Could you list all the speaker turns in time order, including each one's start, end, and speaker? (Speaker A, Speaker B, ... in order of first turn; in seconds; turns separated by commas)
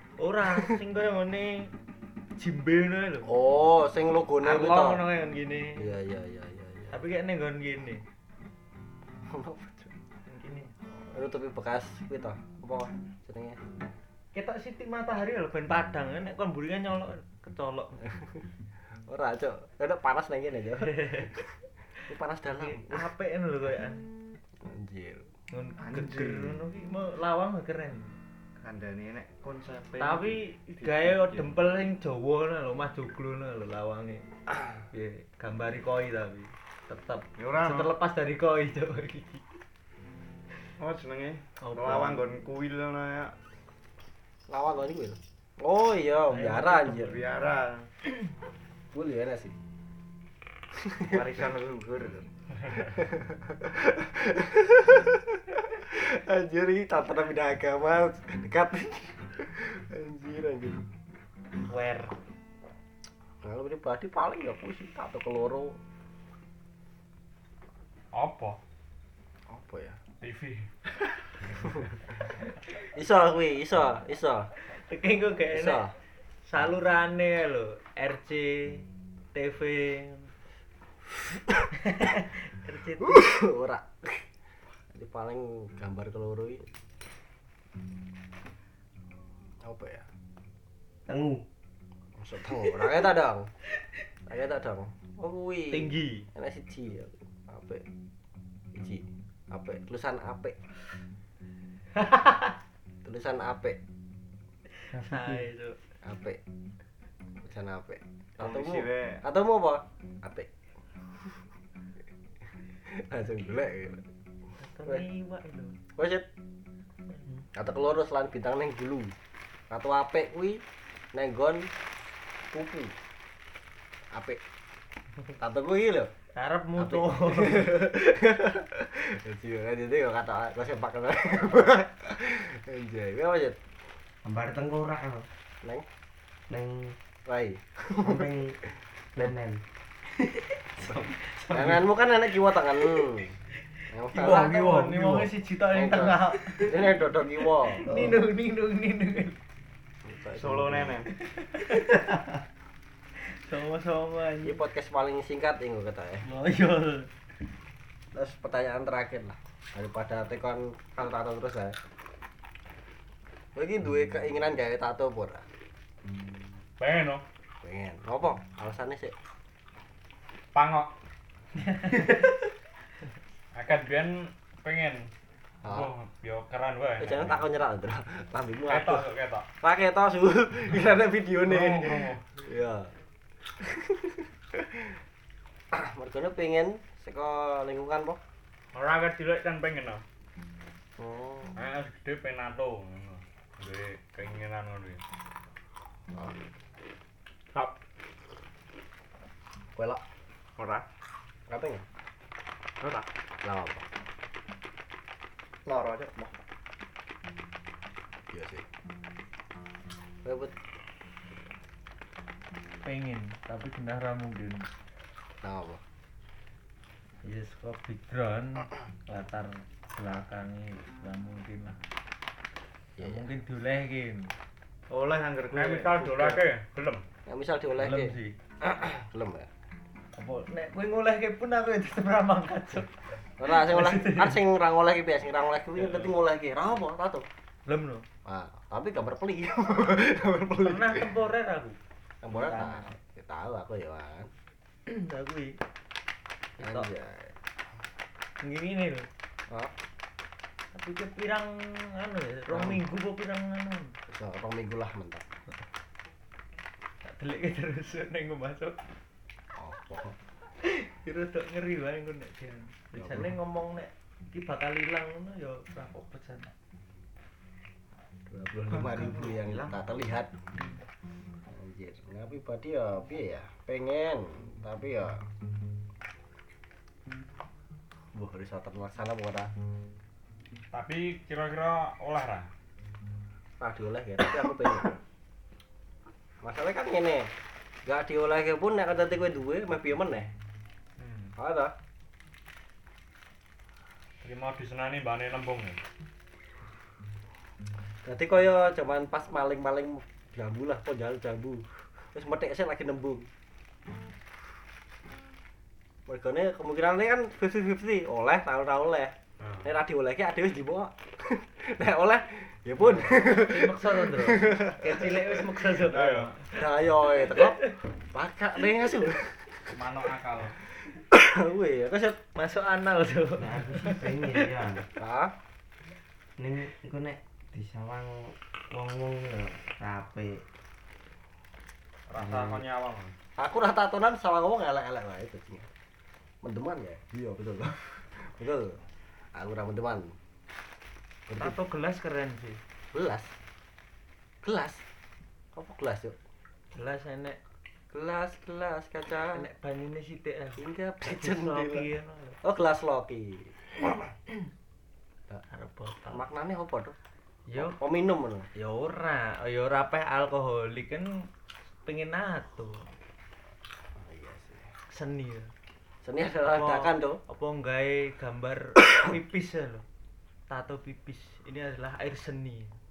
Speaker A: 0.2-1.7, Speaker B: 0.5-0.8, Speaker A: 2.4-3.4, Speaker B: 3.2-5.0, Speaker A: 4.4-5.9, Speaker B: 5.8-7.0, Speaker A: 6.9-8.0, Speaker B: 9.2-9.9, Speaker A: 10.3-10.7, Speaker B: 10.9-13.6, Speaker A: 14.3-18.1, Speaker B: 19.1-21.5, Speaker A: 20.8-21.3, Speaker B: 22.1-23.1, Speaker A: 22.6-24.0, Speaker B: 24.6-25.3, Speaker A: 25.5-28.2, Speaker C: 25.8-26.6, Speaker C: 28.6-31.5, Speaker A: 30.0-34.2, Speaker A: 34.9-39.4, Speaker C: 37.4-37.9, Speaker C: 40.8-43.3, Speaker A: 41.6-42.2, Speaker B: 44.5-47.2, Speaker A: 46.3-47.2, Speaker C: 47.0-47.9, Speaker B: 48.9-49.5, Speaker B: 50.7-51.3, Speaker C: 51.0-52.3, Speaker B: 52.9-60.9, Speaker A: 61.7-62.1, Speaker B: 63.4-65.8, Speaker D: 68.1-68.6, Speaker B: 69.5-70.0, Speaker D: 70.2-71.5, Speaker B: 71.5-71.8, Speaker B: 72.9-74.5, Speaker A: 74.7-75.9, Speaker B: 75.5-75.9, Speaker A: 76.5-80.3, Speaker B: 81.3-81.6, Speaker A: 81.8-83.2, Speaker B: 83.0-84.2, Speaker B: 84.9-86.7, Speaker B: 89.6-90.1, Speaker E: 91.0-91.4, Speaker B: 92.2-93.5, Speaker B: 94.2-97.8, Speaker A: 95.7-96.3, Speaker B: 98.7-100.5, Speaker A: 102.0-102.5, Speaker B: 103.0-103.8, Speaker A: 104.8-105.8, Speaker B: 106.0-106.4, Speaker B: 107.4-110.5, Speaker C: 108.4-109.2, Speaker B: 112.8-114.0, Speaker A: 114.6-115.8, Speaker B: 115.9-116.3, Speaker B: 117.5-119.1, Speaker B: 119.7-120.6, Speaker B: 121.1-121.7, Speaker B: 122.5-122.9, Speaker B: 124.1-124.4, Speaker B: 125.4-126.1, Speaker A: 126.3-127.8, Speaker B: 126.8-133.6, Speaker E: 134.2-135.3, Speaker E: 136.5-136.9, Speaker B: 137.2-138.5, Speaker E: 138.0-138.6, Speaker E: 139.1-139.6, Speaker B: 140.8-143.3, Speaker E: 140.8-141.8, Speaker A: 140.9-141.7, Speaker B: 143.9-144.7, Speaker A: 144.1-146.9, Speaker E: 144.2-145.3, Speaker B: 145.6-148.0, Speaker A: 147.6-149.4, Speaker B: 150.0-151.0, Speaker C: 150.3-151.1, Speaker A: 151.3-152.3, Speaker A: 153.3-154.6, Speaker B: 154.4-156.3, Speaker A: 156.2-157.1, Speaker B: 158.1-161.8, Speaker B: 163.5-165.5, Speaker D: 166.8-167.2, Speaker B: 167.6-169.1, Speaker D: 170.5-170.9, Speaker A: 171.7-172.3, Speaker D: 173.5-175.1, Speaker B: 175.6-175.9, Speaker D: 175.6-177.4, Speaker B: 177.0-179.1, Speaker D: 178.7-179.5, Speaker B: 179.6-182.9, Speaker D: 181.4-182.2, Speaker B: 183.6-184.9, Speaker B: 185.7-188.2, Speaker D: 188.7-190.0, Speaker B: 191.0-191.6, Speaker D: 191.6-195.0, Speaker B: 199.8-200.0, Speaker C: 200.6-200.8, Speaker B: 201.5-201.8, Speaker B: 203.4-203.8, Speaker C: 205.7-206.4, Speaker B: 208.3-208.7, Speaker B: 210.2-210.5, Speaker A: 212.8-214.7, Speaker B: 215.4-215.8, Speaker A: 217.2-221.8, Speaker B: 223.0-223.2, Speaker A: 223.0-224.3, Speaker C: 224.9-226.4, Speaker D: 225.5-227.0, Speaker B: 227.2-229.5, Speaker A: 227.8-228.3, Speaker A: 230.1-234.4, Speaker B: 233.4-237.2, Speaker A: 237.7-238.1, Speaker B: 238.2-241.1, Speaker A: 240.6-241.8, Speaker B: 242.2-244.3, Speaker A: 244.8-245.6, Speaker A: 246.6-246.9, Speaker B: 246.6-247.3, Speaker A: 248.4-249.1, Speaker A: 250.7-253.9, Speaker B: 252.5-252.8, Speaker B: 254.1-255.2, Speaker A: 257.0-258.8, Speaker B: 259.6-260.1, Speaker A: 260.6-266.5, Speaker B: 262.9-263.3, Speaker B: 268.3-270.3, Speaker C: 268.9-269.8, Speaker B: 271.5-275.2, Speaker B: 278.1-279.5, Speaker D: 280.7-282.5, Speaker B: 283.6-285.0, Speaker B: 286.4-287.3, Speaker B: 287.8-290.3, Speaker C: 291.0-291.3, Speaker B: 291.4-291.7, Speaker D: 294.2-295.8, Speaker B: 298.0-303.3, Speaker B: 306.1-315.4, Speaker D: 309.4-309.7, Speaker A: 313.1-316.5, Speaker D: 315.8-316.3, Speaker B: 316.5-317.6, Speaker A: 317.3-317.7, Speaker B: 318.1-319.8, Speaker D: 319.7-320.6, Speaker B: 320.9-322.2, Speaker A: 322.3-324.7, Speaker E: 323.4-324.9, Speaker B: 324.9-325.3, Speaker E: 326.4-330.4, Speaker D: 332.1-333.1, Speaker E: 332.2-332.6, Speaker B: 333.4-335.7, Speaker B: 336.4-338.8, Speaker B: 339.3-340.1, Speaker B: 341.3-341.6, Speaker A: 341.4-342.6, Speaker B: 342.9-343.3, Speaker B: 344.4-344.8, Speaker B: 345.5-346.1, Speaker A: 346.7-347.4, Speaker B: 347.9-349.4, Speaker A: 349.3-352.4, Speaker B: 350.6-351.9, Speaker B: 352.4-354.1, Speaker A: 355.5-356.2, Speaker B: 356.1-356.9, Speaker A: 357.5-357.8, Speaker B: 357.6-358.5, Speaker A: 358.5-361.3, Speaker A: 361.8-362.9, Speaker B: 363.9-364.7, Speaker A: 364.9-365.5, Speaker B: 366.0-367.2, Speaker A: 366.4-369.8, Speaker A: 370.5-372.8